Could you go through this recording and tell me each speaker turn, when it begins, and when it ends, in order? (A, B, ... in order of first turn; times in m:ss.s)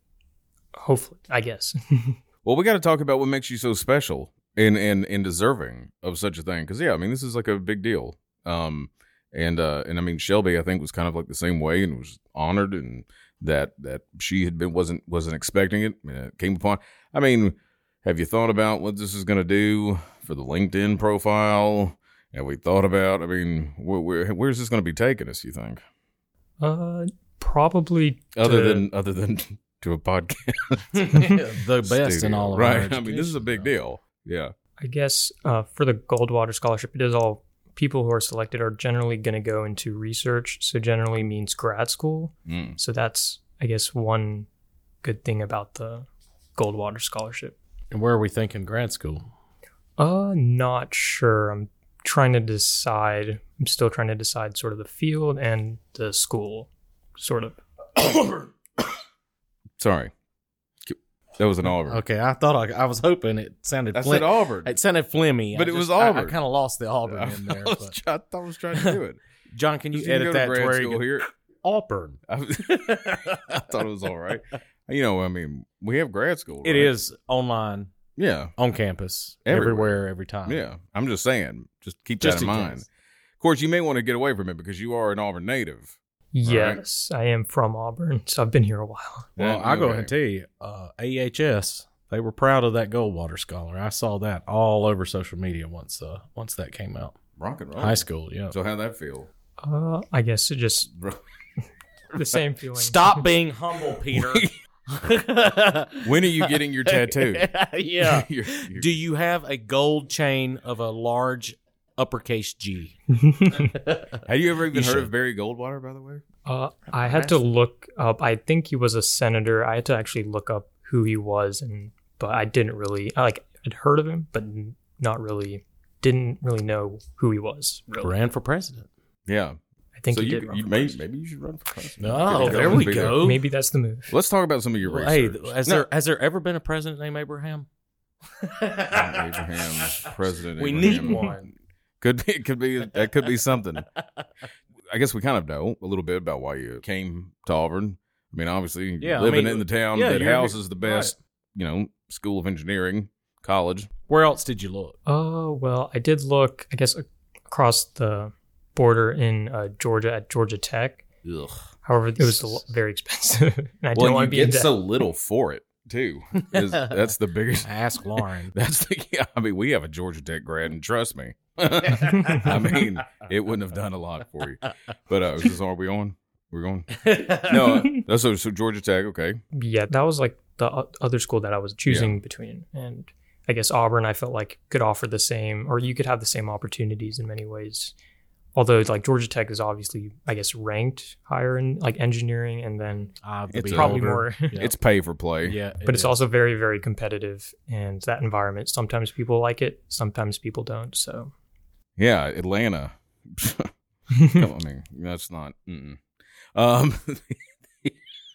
0:00.8-0:02.2 A
0:02.4-0:25.8 B
0:26.6-0:28.8 A
0:28.4-0:34.5 B
0:30.9-0:33.7 C
0:34.8-0:44.5 A
0:42.5-0:42.8 B
0:45.0-0:47.6 A
0:47.9-0:49.3 C
0:50.0-0:57.6 A
0:59.8-1:00.1 B
1:00.9-1:02.0 B
1:01.9-1:08.0 C
1:03.9-1:04.8 B
1:05.5-1:06.4 B
1:07.1-1:09.2 B
1:09.5-1:12.2 C
1:09.9-1:11.2 B
1:12.3-1:16.9 B
1:12.7-1:13.6 C
1:16.6-1:17.9 C
1:18.2-1:18.5 B
1:18.6-1:20.6 C
1:19.4-1:22.9 B
1:22.2-1:22.8 C
1:23.4-1:26.8 B
1:26.3-1:29.3 A
1:29.4-1:30.1 B
1:29.4-1:37.2 C
1:37.4-1:39.3 B
1:37.8-1:38.5 C
1:39.6-1:40.9 A
1:40.9-1:41.2 B
1:42.1-1:43.2 A
1:42.8-1:53.0 C
1:44.1-1:44.5 B
1:46.0-1:48.9 B
1:53.2-1:53.6 A
1:53.6-1:54.2 C
1:54.2-1:56.2 B
1:54.7-1:55.1 C
1:56.4-2:08.1 A
1:56.9-1:57.4 C
2:08.0-2:08.9 C
2:09.3-2:09.6 B
2:10.0-2:11.0 A
2:10.1-2:13.3 B
2:12.0-2:13.4 C
2:12.3-2:14.1 A
2:14.1-2:15.8 B
2:14.8-2:17.7 C
2:18.4-2:21.5 C
2:18.9-2:21.3 B
2:20.8-2:21.3 A
2:22.0-2:23.8 B
2:24.9-2:33.9 B
2:29.0-2:31.2 C
2:34.1-2:35.0 C
2:35.1-2:41.0 A
2:41.2-2:41.6 B
2:41.8-2:44.7 A
2:43.9-2:47.7 B
2:46.4-2:46.9 C
2:47.6-2:48.5 C
2:48.5-2:59.4 B
2:52.3-2:52.8 C
2:57.0-2:57.7 C
2:59.5-3:07.9 A
3:01.9-3:02.2 B
3:08.5-3:13.2 A
3:13.2-3:14.8 C
3:13.5-3:14.0 B
3:13.7-3:14.6 A
3:14.6-3:15.6 B
3:15.4-3:16.2 C
3:15.8-3:21.3 A
3:22.0-3:23.7 B
3:24.2-3:24.4 A
3:24.2-3:26.0 B
3:26.5-3:28.0 B